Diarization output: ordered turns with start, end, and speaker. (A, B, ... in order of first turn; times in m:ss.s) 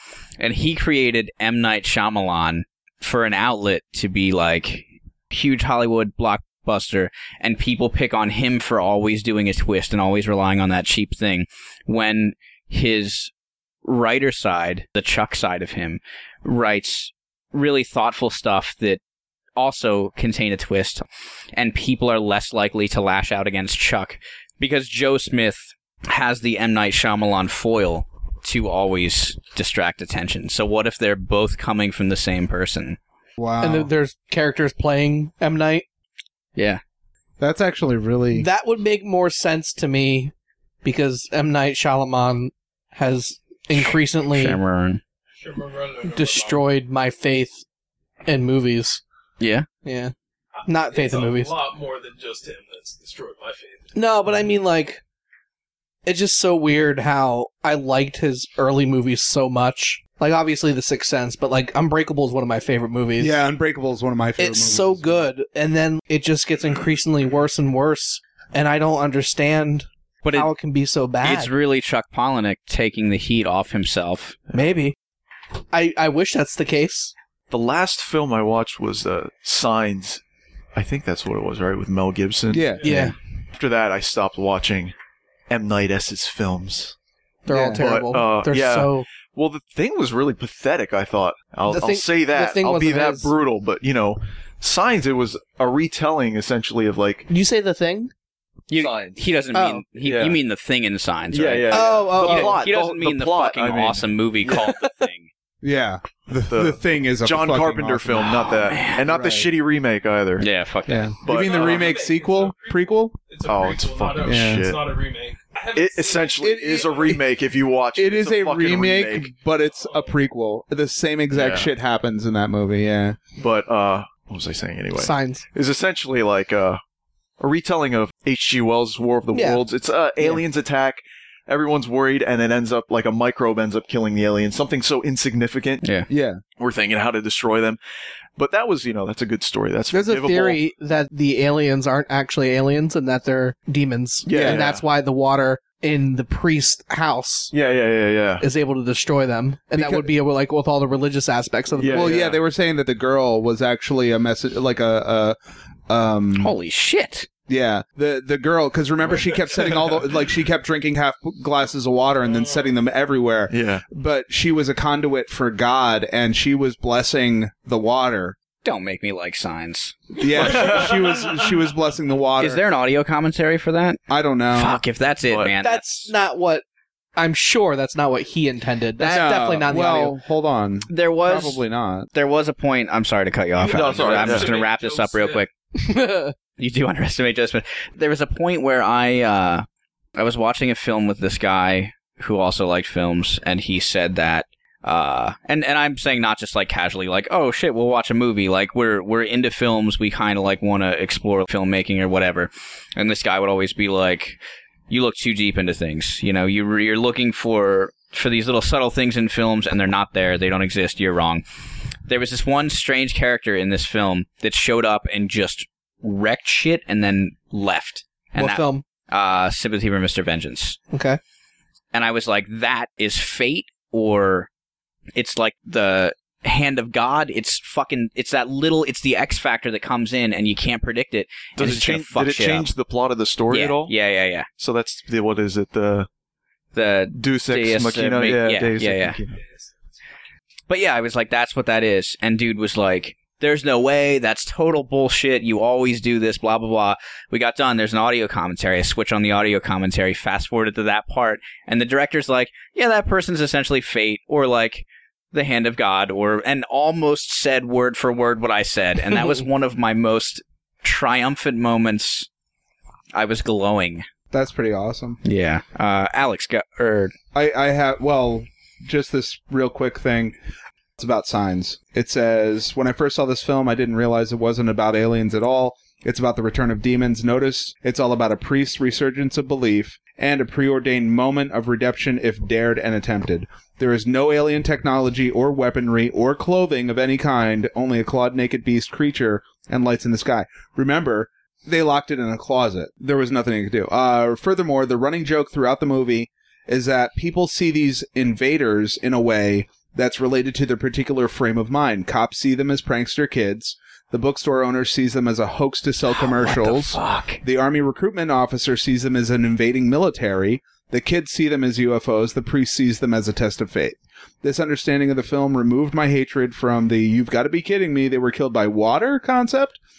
0:00.4-0:13.3 A
0:13.8-0:19.0 A
0:19.6-0:33.0 A
0:33.4-0:33.9 B
0:33.6-0:35.8 C
0:36.6-0:36.8 A
0:37.4-0:38.5 B
0:38.3-0:40.3 C
0:40.8-0:44.6 C
0:43.7-0:45.0 A
0:45.4-0:46.6 D
0:46.1-0:47.6 C
0:48.2-0:49.0 C
0:49.4-0:49.6 A
0:49.8-0:50.1 C
0:50.6-0:53.9 D
0:50.7-0:51.5 C
0:53.9-0:55.0 C
0:56.0-1:03.4 C
1:03.2-1:05.3 B
1:04.4-1:11.5 C
1:10.2-1:10.5 A
1:11.2-1:14.4 A
1:14.5-1:14.9 C
1:15.7-1:17.1 C
1:17.5-1:20.2 E
1:20.7-1:22.8 E
1:22.5-1:22.9 B
1:22.8-1:23.1 C
1:22.9-1:23.1 A
1:23.5-1:24.9 E
1:25.5-1:26.9 E
1:27.4-1:29.0 C
1:27.5-1:27.8 B
1:27.7-1:37.3 E
1:31.7-1:33.3 C
1:37.3-1:38.1 C
1:38.7-1:45.3 A
1:38.7-1:39.3 E
1:39.5-1:39.8 C
1:40.0-1:40.4 E
1:41.3-1:44.7 E
1:41.7-1:42.6 C
1:42.2-1:42.5 B
1:44.5-1:45.1 C
1:45.6-1:48.3 B
1:46.5-1:50.5 E
1:48.1-1:49.0 A
1:49.1-1:49.5 B
1:50.4-1:51.1 A
1:50.9-1:53.1 B
1:51.2-1:52.0 E
1:51.3-1:56.6 D
1:53.4-1:54.8 E
1:54.2-1:54.6 B
1:55.7-1:59.3 E
1:56.4-1:57.2 B
1:58.0-2:03.2 B
2:01.3-2:01.7 E
2:03.4-2:06.8 E
2:04.9-2:05.4 C
2:07.4-2:15.8 E
2:09.3-2:09.6 C
2:15.8-2:16.1 A
2:16.1-2:16.4 B
2:16.6-2:17.8 E
2:18.4-2:20.6 E
2:19.9-2:27.5 C
2:24.2-2:24.8 E
2:24.3-2:24.7 B
2:27.5-2:28.5 E
2:28.4-2:32.1 C
2:29.7-2:30.1 B
2:31.8-2:32.4 E
2:31.9-2:35.4 B
2:35.9-2:36.5 B
2:36.4-2:37.3 A
2:37.5-2:48.4 B
2:43.5-2:43.8 E
2:48.6-2:50.6 A
2:50.2-2:52.6 B
2:50.6-2:51.4 D
2:52.4-2:54.0 A
2:54.1-2:54.8 B
2:54.5-2:56.1 A
2:55.3-2:55.5 E
2:55.6-2:56.6 C
2:57.2-3:00.1 C
2:59.0-3:02.1 B
3:00.9-3:05.5 A
3:03.6-3:05.4 D
3:03.7-3:04.5 E
3:05.7-3:06.3 C
3:06.6-3:24.4 A
3:24.9-3:31.4 A
3:32.1-3:40.8 A
3:38.4-3:38.8 C
3:40.9-3:41.2 C
3:41.9-3:44.5 A
3:45.1-3:52.7 A
3:51.6-3:53.9 E
3:53.5-3:54.5 A
3:54.6-3:56.1 E
3:56.7-3:59.2 A
3:57.1-3:59.4 E
4:00.7-4:22.3 A
4:23.1-4:24.0 A
4:24.3-4:25.2 B
4:25.2-4:27.1 A
4:27.3-4:30.4 B
4:31.0-5:19.8 B
5:06.2-5:07.4 A